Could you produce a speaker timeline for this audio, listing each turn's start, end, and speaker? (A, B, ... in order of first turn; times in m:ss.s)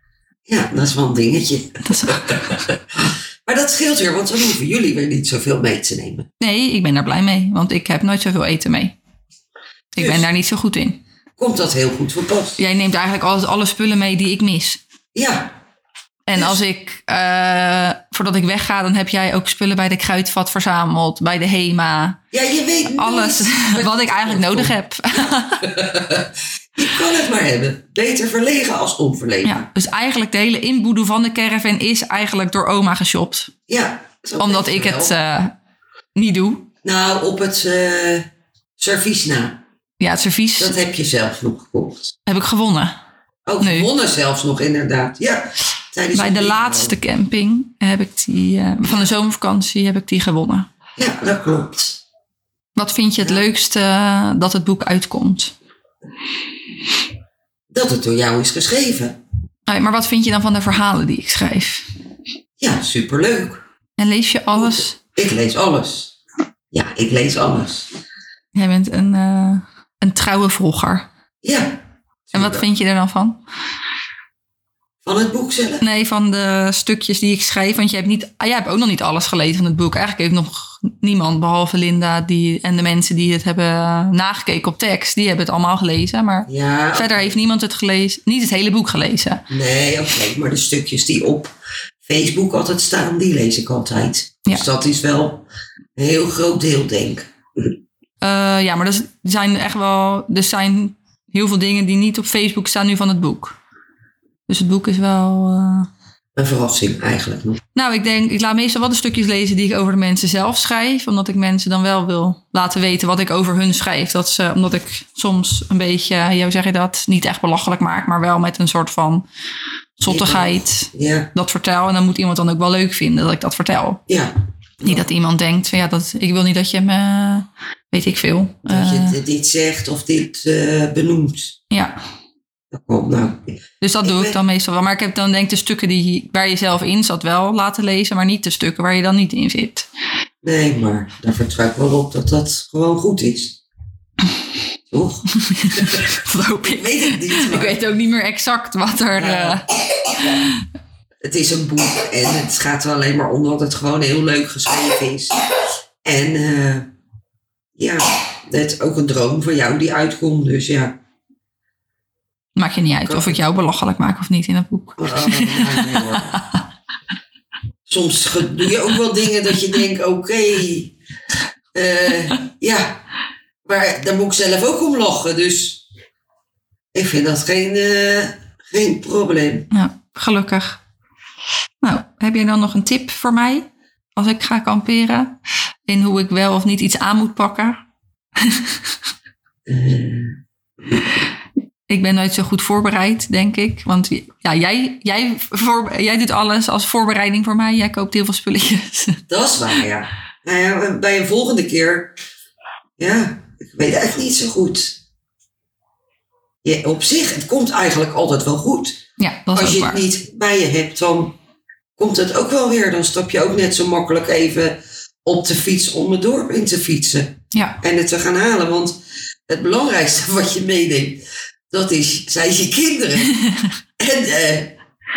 0:00.5-0:06.3 A
0:01.8-0:02.7 B
0:06.4-0:09.0 B
0:10.0-0:11.0 B
0:10.0-0:10.3 A
0:11.4-0:12.6 A
0:12.6-0:14.8 B
0:15.1-0:15.5 A
0:16.3-0:22.2 B
0:16.3-0:16.6 A
0:22.3-0:24.8 A
0:22.9-0:25.8 B
0:25.6-0:29.7 A
0:29.4-0:33.5 B
0:33.7-0:35.2 A
0:34.4-0:35.6 B
0:36.2-0:36.7 B
0:36.8-0:38.3 A
0:38.8-0:39.6 A
0:40.0-0:40.8 B
0:40.6-0:42.2 A
0:42.3-0:42.9 B
0:43.5-0:47.0 A
0:43.6-0:43.9 B
0:46.1-0:50.7 B
0:51.0-0:52.0 A
0:52.8-0:55.6 B
0:53.2-0:53.5 A
0:57.7-0:59.2 A
0:59.7-1:01.9 B
1:02.6-1:03.6 A
1:04.0-1:05.0 B
1:04.6-1:06.2 A
1:06.7-1:07.9 A
1:08.5-1:11.1 B
1:11.4-1:11.8 A
1:12.3-1:12.7 A
1:12.3-1:13.4 B
1:15.0-1:15.8 A
1:15.8-1:29.4 B
1:26.5-1:27.4 A
1:29.5-1:31.5 A
1:32.1-1:35.5 A
1:36.0-1:37.3 A
1:38.2-1:43.6 B
1:44.5-1:45.9 B
1:46.4-1:47.6 A
1:47.8-1:59.3 B
2:00.0-2:04.0 B
2:00.1-2:01.3 A
2:04.1-2:04.3 A
2:04.8-2:09.2 B
2:08.6-2:11.6 A
2:11.7-2:12.0 B
2:12.7-2:14.4 A
2:13.8-2:19.9 B
2:20.4-2:23.6 A
2:24.9-2:26.0 A
2:25.5-2:30.6 B
2:26.6-2:27.8 A
2:29.2-2:30.3 A
2:31.2-2:35.4 A
2:36.0-2:36.9 A
2:37.8-2:41.0 A
2:42.6-2:46.6 B
2:43.0-2:43.4 A
2:45.0-2:46.4 A
2:47.9-2:50.9 A
2:51.7-2:53.0 A
2:53.7-2:55.8 A
2:56.9-2:59.7 A
2:59.7-3:00.8 B
3:01.8-3:03.6 B
3:04.2-3:05.4 B
3:05.9-3:07.8 B
3:08.4-3:08.8 B
3:09.7-3:10.4 A
3:11.9-3:19.2 B
3:19.3-3:22.1 A
3:23.0-3:25.0 A
3:26.6-3:29.0 A
3:29.2-3:30.0 B
3:29.6-3:31.4 A
3:32.0-3:39.0 A
3:37.5-3:37.8 B
3:39.5-3:43.4 A
3:44.0-3:44.8 A